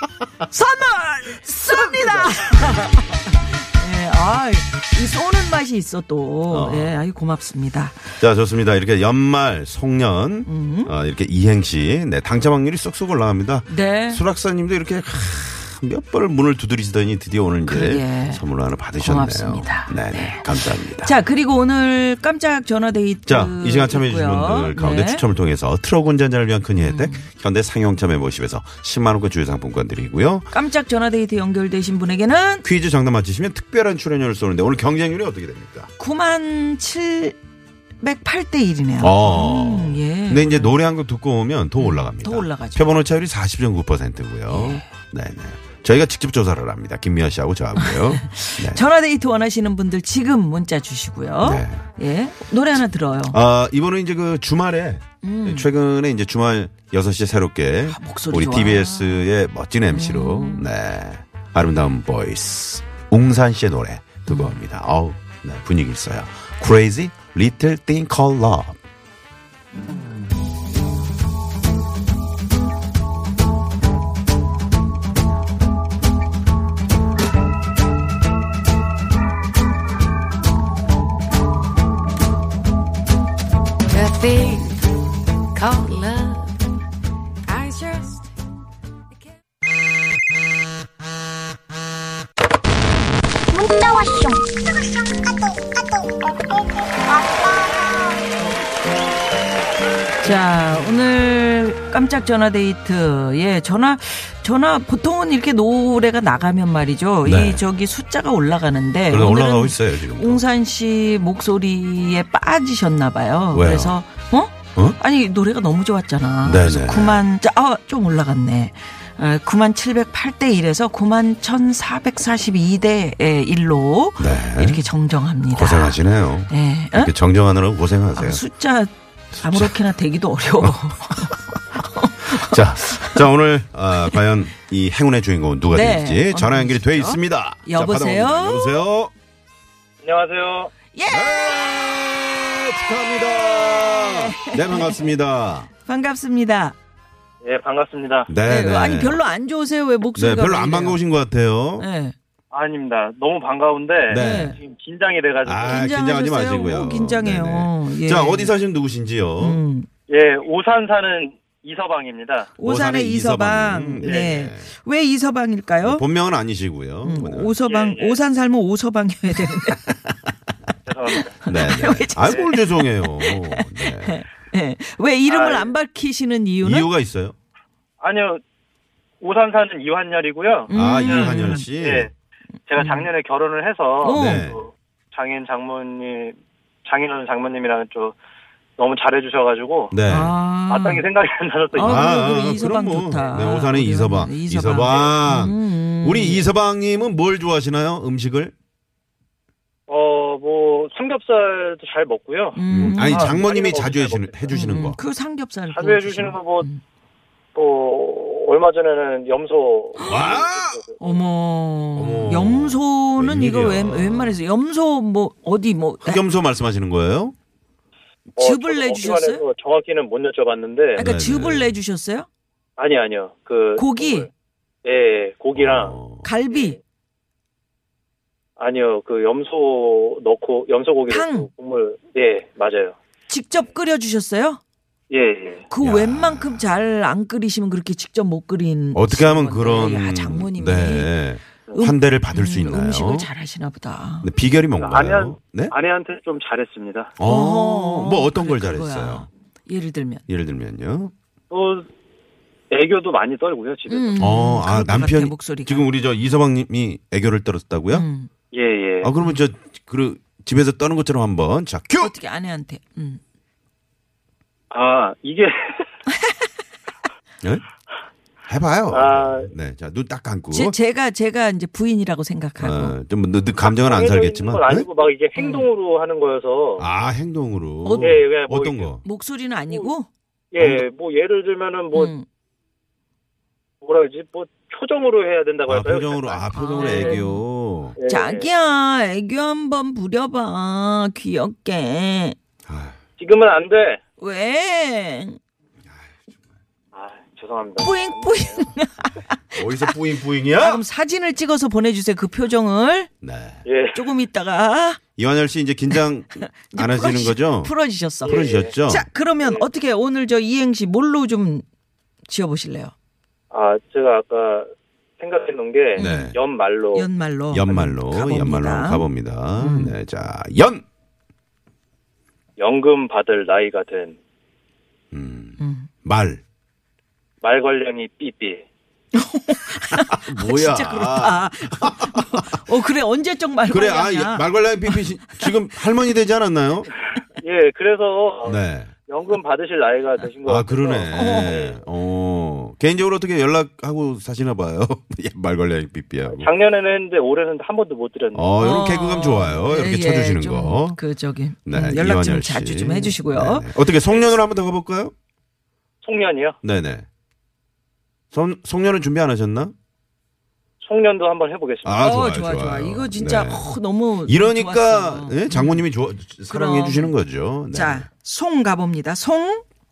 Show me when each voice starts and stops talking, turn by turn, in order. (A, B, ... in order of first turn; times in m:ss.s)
0:00.4-0:08.0 A
0:06.5-0:07.0 B
0:08.2-0:21.1 B
0:10.4-0:10.9 A
0:13.7-0:14.2 A
0:17.6-0:18.4 A
0:19.0-0:20.5 A
0:21.0-0:25.2 A
0:23.3-0:30.5 B
0:26.8-0:27.2 A
0:30.5-0:32.6 A
0:32.6-0:35.9 B
0:36.0-0:37.4 A
0:38.0-0:40.8 A
0:39.0-0:48.8 B
0:41.8-0:43.0 A
0:44.5-0:44.8 A
0:47.8-0:53.4 A
0:51.4-0:51.8 B
0:53.3-1:08.8 B
0:55.2-0:55.7 A
0:57.8-0:59.2 A
0:59.9-1:00.7 A
1:04.3-1:04.6 A
1:23.9-1:24.8 C
1:25.5-1:26.5 C
1:27.5-1:28.0 C
1:33.5-1:36.3 D
1:37.3-1:37.8 D
1:40.2-2:07.1 A
1:47.2-1:47.6 B
1:49.1-1:50.4 B
1:53.5-1:54.0 B
1:56.4-1:57.2 B
2:04.2-2:04.8 B
2:05.5-2:08.4 B
2:08.1-2:13.2 A
2:09.4-2:09.8 B
2:12.2-2:19.1 B
2:15.7-2:18.8 A
2:20.0-2:20.7 E
2:20.9-2:21.7 A
2:21.1-2:25.7 B
2:23.8-2:25.1 A
2:25.8-2:26.8 A
2:27.4-2:28.3 E
2:28.3-2:29.2 B
2:28.4-2:31.0 A
2:30.2-2:31.9 B
2:31.8-2:32.2 A
2:32.5-2:35.8 E
2:34.1-2:34.6 B
2:34.2-2:34.6 A
2:35.4-2:39.6 B
2:35.7-2:38.5 A
2:39.4-2:39.9 A
2:40.1-2:42.5 E
2:42.6-2:46.0 A
2:42.6-2:44.7 B
2:44.0-2:44.3 E
2:45.8-2:47.6 B
2:47.0-2:49.9 A
2:47.6-2:48.2 E
2:50.8-2:51.4 E
2:51.4-2:56.9 A
2:51.5-2:54.2 B
2:55.3-2:55.7 E
2:56.6-2:57.3 B
2:58.0-2:58.4 E
2:59.2-3:02.1 E
3:00.7-3:01.6 A
3:00.7-3:02.1 B
3:02.7-3:08.2 E
3:02.8-3:03.1 A
3:04.0-3:04.5 A
3:04.1-3:04.6 B
3:08.8-3:10.0 E
3:09.9-3:10.4 B
3:10.1-3:11.0 A
3:10.7-3:12.4 E
3:11.7-3:16.5 A
3:11.7-3:18.5 B
3:19.9-3:24.6 E
3:22.5-3:23.4 A
3:22.7-3:25.0 B
3:24.5-3:26.8 A
3:25.7-3:26.7 E
3:27.5-3:31.2 E
3:30.0-3:30.3 A
3:30.0-3:30.8 B
3:31.0-3:36.2 A
3:32.0-3:34.4 B
3:36.0-3:37.3 B
3:38.4-3:41.0 E
3:38.4-3:39.4 A
3:41.0-3:42.3 A
3:41.0-3:41.7 B
3:42.8-3:44.3 E
3:43.8-3:44.3 A
3:44.8-3:46.0 E
3:45.6-3:46.3 B
3:46.2-3:46.8 A
3:46.5-3:46.8 E
3:48.6-3:53.0 E
3:51.1-3:51.5 A
3:53.3-3:54.6 A
3:55.1-3:55.7 E
3:55.7-4:01.1 A
3:55.8-3:56.6 B
3:58.9-4:03.3 B
4:01.7-4:04.3 A
4:04.2-4:05.7 B
4:04.8-4:07.2 E
4:07.2-4:09.3 B
4:07.2-4:10.2 A
4:10.3-4:11.1 B
4:11.5-4:11.9 E
4:12.7-4:14.2 E
4:13.9-4:15.9 A
4:14.2-4:18.0 B
4:17.9-4:18.3 A
4:18.5-4:19.1 E
4:19.0-4:22.1 B
4:22.0-4:23.2 A
4:24.7-4:25.8 E
4:28.5-4:30.8 B
4:28.9-4:29.5 E
4:30.5-4:33.0 A
4:32.6-4:34.9 B
4:33.6-4:36.9 E
4:35.4-4:35.7 A
4:36.8-4:39.0 B
4:37.8-4:38.2 A
4:38.0-4:39.0 E
4:39.0-4:40.1 A
4:40.5-4:42.1 E
4:40.6-4:40.8 B
4:41.9-4:42.2 A
4:43.8-4:47.2 E
4:45.7-4:48.0 B
4:46.5-4:47.4 A
4:48.0-4:48.5 E
4:48.1-4:52.4 A
4:52.7-4:53.0 B
4:53.2-4:54.0 E
4:54.2-4:55.4 A
4:56.9-4:58.6 E
4:57.8-4:59.9 A
4:59.5-5:00.8 B
5:00.5-5:03.1 A
5:03.2-5:03.6 B
5:03.6-5:04.1 E
5:03.9-5:05.0 A
5:05.2-5:09.1 B
5:05.9-5:11.6 A
5:08.2-5:08.7 E
5:12.2-5:12.9 A
5:13.5-5:17.1 E
5:16.0-5:16.4 A
5:16.0-5:16.4 B
5:16.9-5:20.0 A
5:17.5-5:20.8 B
5:22.6-5:24.2 E
5:25.1-5:26.4 B
5:25.6-5:25.9 A
5:27.4-5:28.6 E
5:29.1-5:35.3 A
5:30.0-5:32.5 B
5:33.7-5:36.9 B
5:37.4-5:41.8 E
5:38.4-5:38.9 B
5:40.4-5:46.5 B
5:41.1-5:41.7 A
5:46.3-5:48.5 E
5:48.4-5:51.0 B
5:48.6-5:53.7 A
5:51.6-5:55.1 B
5:56.0-5:56.6 E
5:56.6-5:57.1 B
5:58.3-5:59.7 B
6:00.8-6:02.0 E
6:01.8-6:03.7 B
6:02.0-6:05.8 A
6:04.2-6:08.1 B
6:06.5-6:07.1 A
6:07.7-6:09.6 A